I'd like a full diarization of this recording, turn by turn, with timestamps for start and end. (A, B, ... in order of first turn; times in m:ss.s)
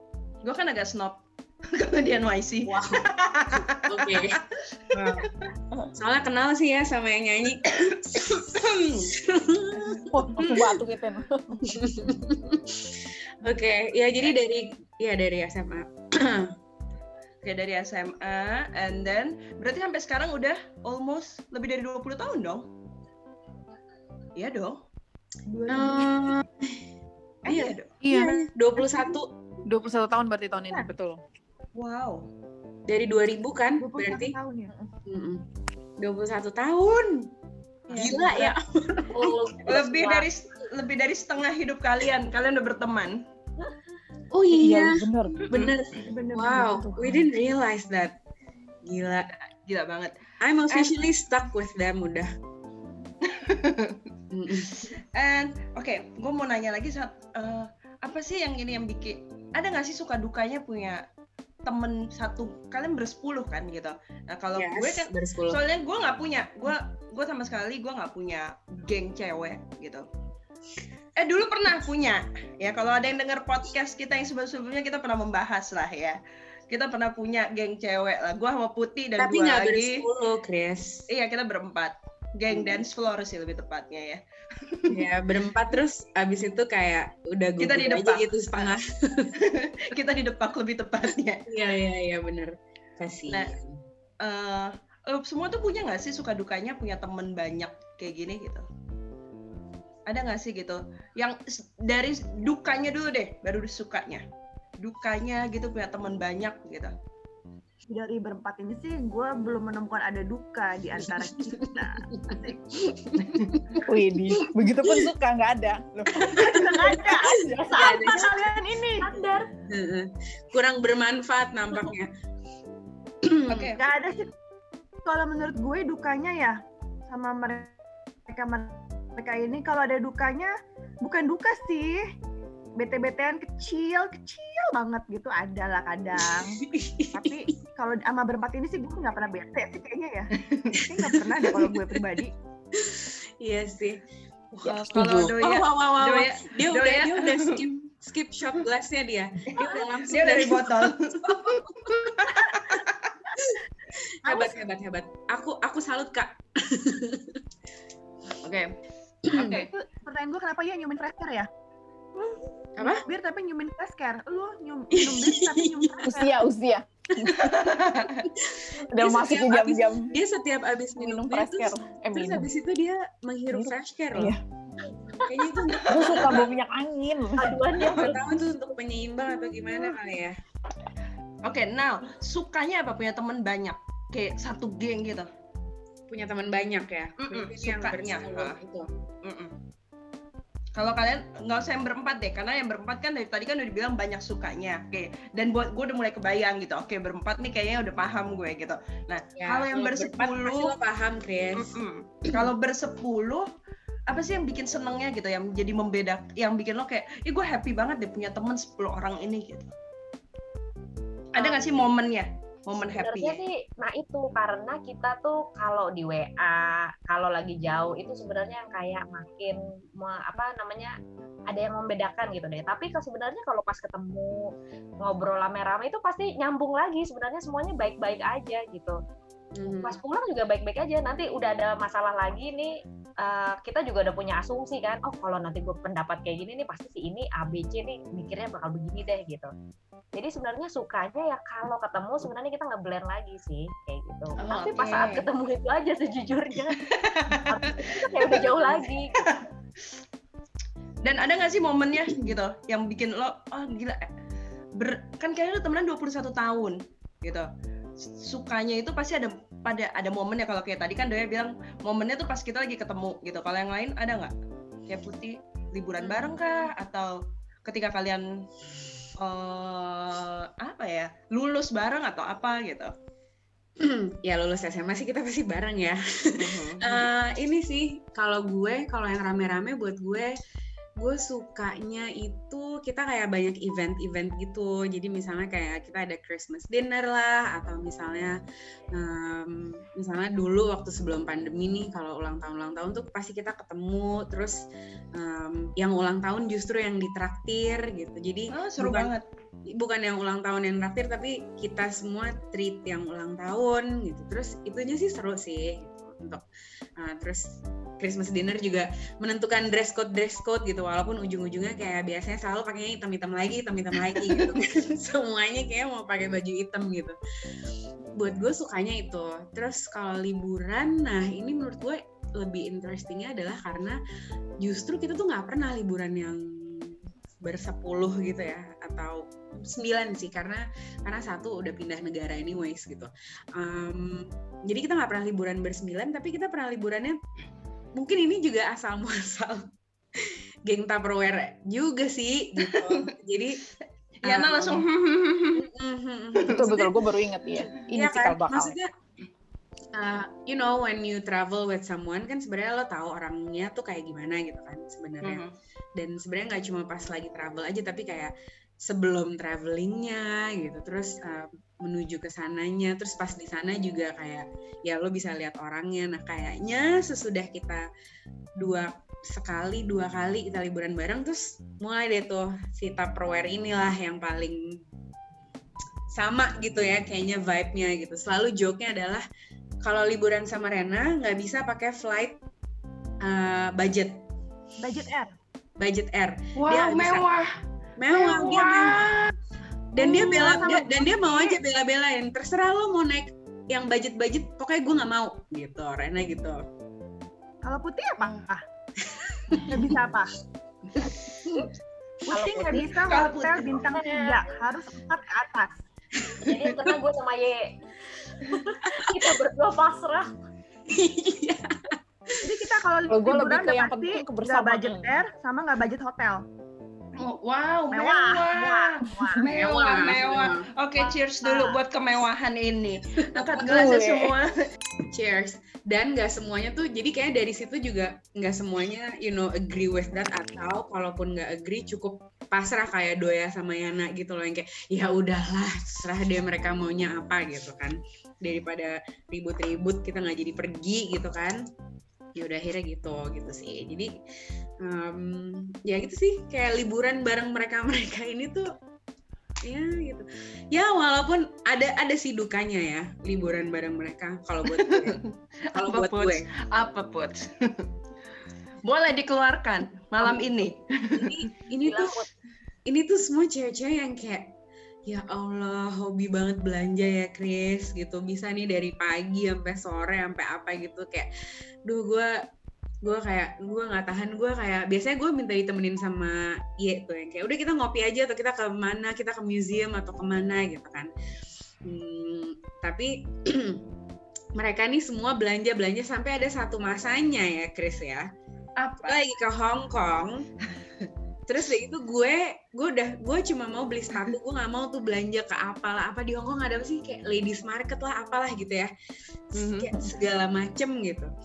0:00.4-0:05.3 A
0:02.6-0:05.3 B
0:06.0-0:10.7 B
0:08.3-0:09.1 A
0:09.7-0:10.7 A
0:10.1-0:11.7 C
0:11.6-0:16.5 B
0:17.4-0:22.7 A
0:24.4-0:24.8 A
0:25.5-0:26.4 D
0:25.7-0:26.8 B
0:27.4-0:27.9 A
0:27.5-0:29.3 B
0:28.0-0:28.4 C
0:29.6-0:31.2 C
0:31.8-0:32.3 A
0:32.9-0:34.4 B
0:33.8-0:34.9 D
0:35.1-0:35.4 B
0:36.0-0:37.3 B
0:37.9-0:38.5 A
0:37.9-0:39.5 B
0:39.1-0:40.3 E
0:39.7-0:43.2 A
0:44.3-0:48.2 B
0:44.5-0:45.5 C
0:45.5-0:45.8 A
0:46.1-0:47.1 D
0:46.1-0:47.2 C
0:48.8-0:49.3 B
0:49.6-0:50.2 A
0:50.4-0:52.3 B
0:50.7-0:51.0 A
0:53.2-0:54.0 A
0:54.3-0:54.9 B
0:54.8-1:01.0 A
1:01.6-1:10.1 A
1:04.6-1:05.6 B
1:11.2-1:20.1 A
1:19.2-1:21.0 B
1:21.1-1:25.1 A
1:22.5-1:22.8 B
1:24.9-1:29.4 B
1:27.6-1:28.7 A
1:29.4-1:31.4 A
1:31.5-1:33.8 B
1:33.3-1:33.5 A
1:34.2-1:38.6 A
1:40.1-1:44.2 A
1:44.8-1:47.0 A
1:47.9-1:52.1 D
1:51.2-1:52.5 B
1:53.0-1:53.8 B
1:53.2-1:53.6 A
1:53.8-1:56.7 C
1:54.3-1:55.1 B
1:56.4-1:58.6 B
1:56.4-1:59.2 D
1:57.8-1:58.1 E
1:59.0-1:59.5 E
1:59.7-2:02.1 B
2:03.2-2:03.8 B
2:03.5-2:03.8 A
2:03.8-2:04.3 D
2:05.0-2:07.8 D
2:08.3-2:12.0 D
2:12.8-2:22.3 D
2:16.6-2:17.5 B
2:20.4-2:20.8 A
2:20.8-2:22.0 B
2:22.7-2:24.0 B
2:24.5-2:32.8 B
2:24.6-2:25.4 C
2:24.7-2:27.6 A
2:29.5-2:33.2 A
2:33.4-2:37.4 B
2:38.4-2:38.7 A
2:39.3-2:39.6 B
2:39.3-2:39.7 A
2:39.4-2:41.5 D
2:42.2-2:46.4 D
2:42.8-2:43.0 B
2:44.9-2:46.1 B
2:46.0-2:47.5 C
2:47.2-2:47.6 B
2:47.4-2:48.3 A
2:48.3-2:54.3 B
2:48.9-2:50.1 C
2:51.0-2:52.5 C
2:53.5-2:54.4 C
2:55.1-2:55.9 E
2:55.2-2:56.4 B
2:55.7-2:56.5 A
2:55.8-2:57.6 C
2:57.4-2:58.2 E
2:57.8-3:00.4 B
2:57.8-2:58.2 A
3:01.4-3:05.3 A
3:06.1-3:08.9 B
3:07.2-3:08.6 A
3:09.2-3:09.5 A
3:10.8-3:20.7 A
3:19.4-3:21.8 B
3:21.6-3:23.5 A
3:24.1-3:29.7 A
3:31.3-3:33.4 A
3:31.4-3:31.8 E
3:32.9-3:41.0 E
3:41.5-3:44.5 E
3:45.0-3:49.0 E
3:49.6-3:50.0 B
3:49.7-3:59.5 E
4:00.1-4:09.2 E
4:04.4-4:05.2 A
4:06.9-4:09.5 A
4:11.0-4:14.1 A
4:14.8-4:17.5 A
4:18.0-4:24.3 A
4:24.9-4:28.4 A
4:26.0-4:26.4 B
4:29.2-4:32.9 A
4:33.8-4:40.3 B
4:36.4-4:37.1 A
4:41.0-4:48.4 B
4:48.9-4:54.6 B
4:55.2-4:59.1 B
4:58.5-4:59.2 A
4:59.7-5:06.4 B
5:07.0-5:17.2 B
5:18.2-5:24.0 B
5:24.6-5:37.2 B
5:38.0-5:43.6 B
5:42.7-5:43.0 A
5:44.2-5:45.7 A
5:44.2-5:44.9 B
5:45.6-5:47.0 B
5:46.4-5:48.8 C
5:47.8-5:48.9 B
5:50.0-5:55.4 B
5:55.2-5:55.5 A
5:56.0-5:58.3 B
5:58.8-6:07.9 B
6:08.6-6:14.8 B
6:16.1-6:19.2 B
6:19.8-6:22.4 B
6:23.2-6:24.2 B
6:24.8-6:25.3 D
6:25.8-6:27.3 B
6:26.6-6:27.5 A
6:28.0-6:29.1 B
6:28.1-6:29.3 A
6:29.9-6:36.6 B
6:30.0-6:31.6 D
6:30.0-6:30.7 A
6:37.6-6:38.6 D
6:39.1-6:39.7 B
6:39.5-6:40.3 D
6:42.3-6:45.8 D
6:42.3-6:42.9 B
6:43.0-6:44.1 A
6:46.4-6:47.7 E
6:48.4-6:50.3 E
6:50.9-6:52.5 B
6:52.4-6:56.4 D
6:53.1-6:55.2 C
6:57.2-7:04.5 A
6:57.9-6:59.5 D
6:59.5-7:00.7 B
7:01.4-7:01.8 D
7:03.2-7:04.0 B
7:03.7-7:04.3 C
7:05.1-7:21.6 B
7:22.4-7:24.1 B
7:24.8-7:28.7 B
7:29.6-7:36.5 B
7:34.8-7:35.2 A
7:35.8-7:37.9 A
7:38.8-7:41.5 A
7:40.2-7:42.2 B
7:41.8-7:42.3 E
7:42.9-7:44.5 B
7:45.1-7:51.3 B
7:51.9-7:52.4 B
7:53.0-8:01.1 B
8:01.8-8:03.9 B
8:04.6-8:08.3 B
8:08.8-8:09.2 A
8:09.0-8:10.5 B
8:11.5-8:18.9 B
8:19.5-8:21.3 B
8:19.6-8:20.1 A